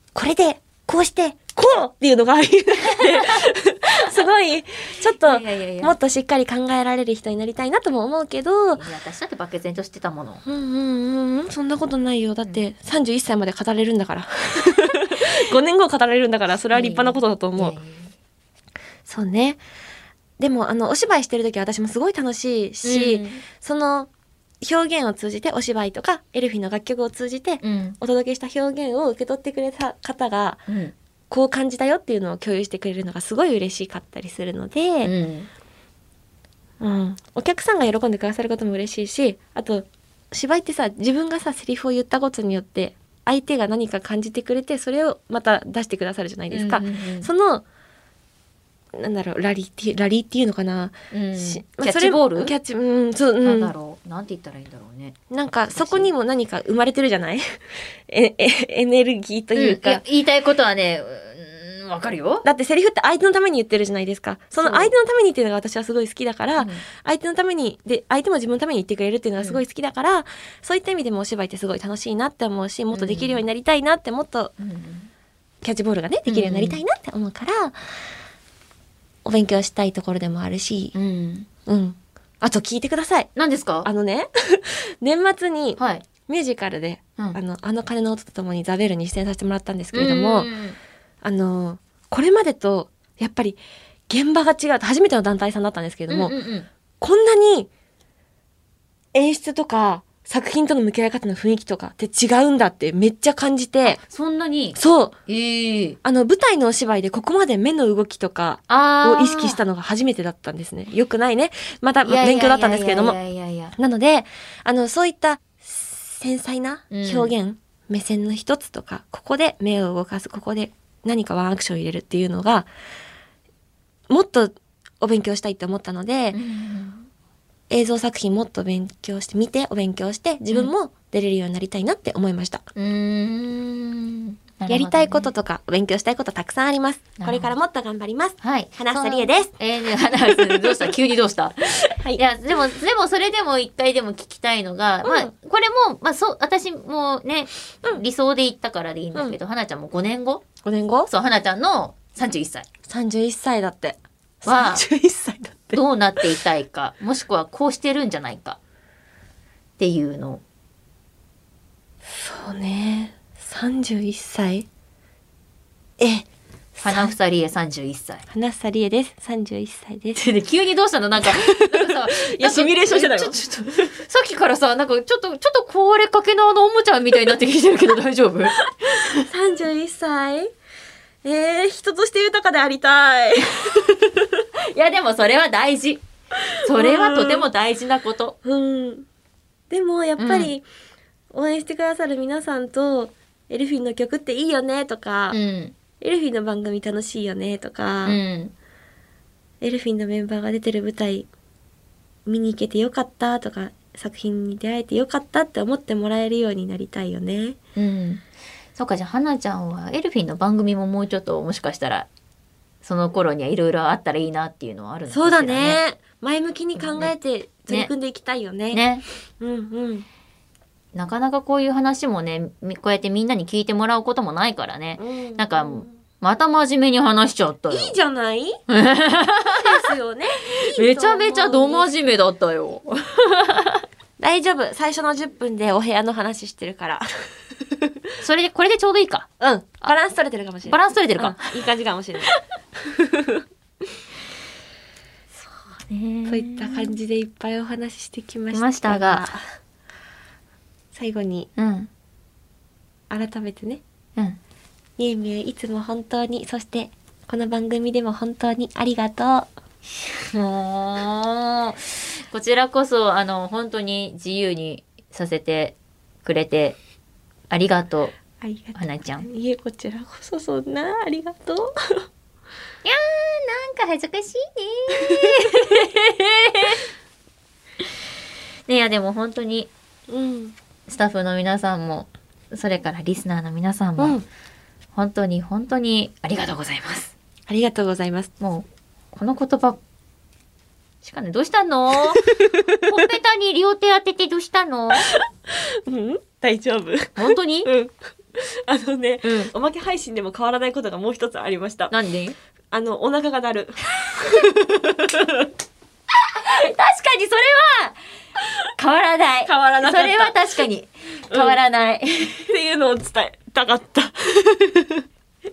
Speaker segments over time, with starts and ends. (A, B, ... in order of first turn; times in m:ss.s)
0:00.2-0:08.8 A
0:03.0-0:03.4 B
0:05.2-0:06.0 B
0:08.8-0:10.4 B
0:10.4-0:17.8 A
0:16.7-0:18.1 B
0:19.0-0:19.6 A
0:20.4-0:24.1 A
0:22.8-0:23.4 B
0:24.6-0:30.6 A
0:27.6-0:28.0 B
0:30.7-0:30.9 B
0:31.3-0:35.1 A
0:35.0-0:35.5 B
0:36.8-0:47.6 A
0:46.5-0:47.3 B
0:49.0-0:53.7 A
0:51.1-0:52.5 B
0:53.4-0:56.1 B
0:55.3-1:00.0 A
0:59.6-1:02.5 B
1:02.4-1:14.5 A
1:04.6-1:04.9 B
1:06.6-1:06.8 B
1:12.9-1:13.4 B
1:14.6-1:15.1 B
1:15.6-1:17.8 A
1:16.3-1:16.8 B
1:19.2-1:21.0 A
1:20.9-1:21.5 B
1:21.7-1:23.3 A
1:23.4-1:23.9 B
1:23.8-1:30.5 A
1:25.8-1:26.0 B
1:29.9-1:30.8 B
1:31.2-1:36.4 A
1:36.1-1:36.7 B
1:37.0-1:37.7 A
1:39.1-1:44.0 A
1:43.9-1:46.0 B
1:44.8-1:45.2 A
1:46.0-1:53.2 A
1:48.7-1:49.6 B
1:52.0-1:53.8 B
1:53.8-2:02.7 A
1:56.9-1:57.3 B
2:04.1-2:06.4 A
2:06.3-2:07.1 B
2:07.7-2:12.7 A
2:12.8-2:15.3 B
2:14.7-2:19.5 A
2:17.2-2:17.5 B
2:18.4-2:30.5 B
2:20.3-2:20.9 A
2:21.9-2:22.2 A
2:25.0-2:25.3 A
2:30.6-2:31.1 A
2:31.1-2:32.7 B
2:32.9-2:35.8 A
2:34.5-2:34.9 B
2:35.7-2:38.6 B
2:39.8-2:40.4 B
2:42.0-2:44.7 A
2:46.0-2:47.1 A
2:46.8-2:48.2 B
2:48.3-2:50.2 A
2:50.2-2:59.2 B
2:51.2-2:53.9 A
2:58.9-3:00.5 A
3:01.2-3:04.4 A
3:04.7-3:06.0 B
3:06.5-3:08.4 B
3:06.7-3:07.5 A
3:08.4-3:09.1 A
3:09.7-3:10.6 A
3:10.2-3:10.5 B
3:11.3-3:15.4 A
3:15.3-3:15.8 B
3:16.0-3:18.2 A
3:18.0-3:18.5 B
3:19.6-3:21.3 A
3:22.3-3:27.6 A
3:27.8-3:28.2 B
3:28.8-3:32.1 B
3:32.8-3:35.8 B
3:35.1-3:38.8 A
3:36.8-3:37.1 B
3:38.7-3:39.0 B
3:39.4-3:40.1 A
3:41.0-3:48.0 B
3:45.0-3:45.9 A
3:47.7-3:48.6 A
3:48.7-3:53.8 B
3:49.5-3:51.9 A
3:54.2-3:58.0 A
3:58.2-3:59.3 B
3:59.4-4:03.4 A
4:00.7-4:01.6 B
4:05.8-4:07.0 B
4:06.3-4:09.4 A
4:08.5-4:09.3 B
4:10.9-4:11.5 A
4:11.6-4:11.9 B
4:13.1-4:13.8 A
4:15.0-4:19.5 A
4:20.3-4:26.8 B
4:27.5-4:28.2 B
4:28.4-4:32.0 A
4:28.8-4:29.3 B
4:32.8-4:36.8 B
4:35.1-4:35.5 A
4:38.7-4:39.7 B
4:40.1-4:40.6 A
4:40.9-4:44.2 B
4:44.0-4:44.2 A
4:45.0-4:47.1 B
4:47.5-4:48.3 A
4:48.4-4:49.8 B
4:51.0-4:55.1 B
4:52.2-4:52.8 A
4:55.1-5:01.9 A
4:57.2-4:57.7 B
4:59.2-4:59.5 B
5:01.9-5:02.4 B
5:02.7-5:05.5 A
5:06.3-5:08.0 B
5:08.8-5:12.5 B
5:09.5-5:10.6 A
5:11.3-5:11.6 A
5:12.5-5:15.0 A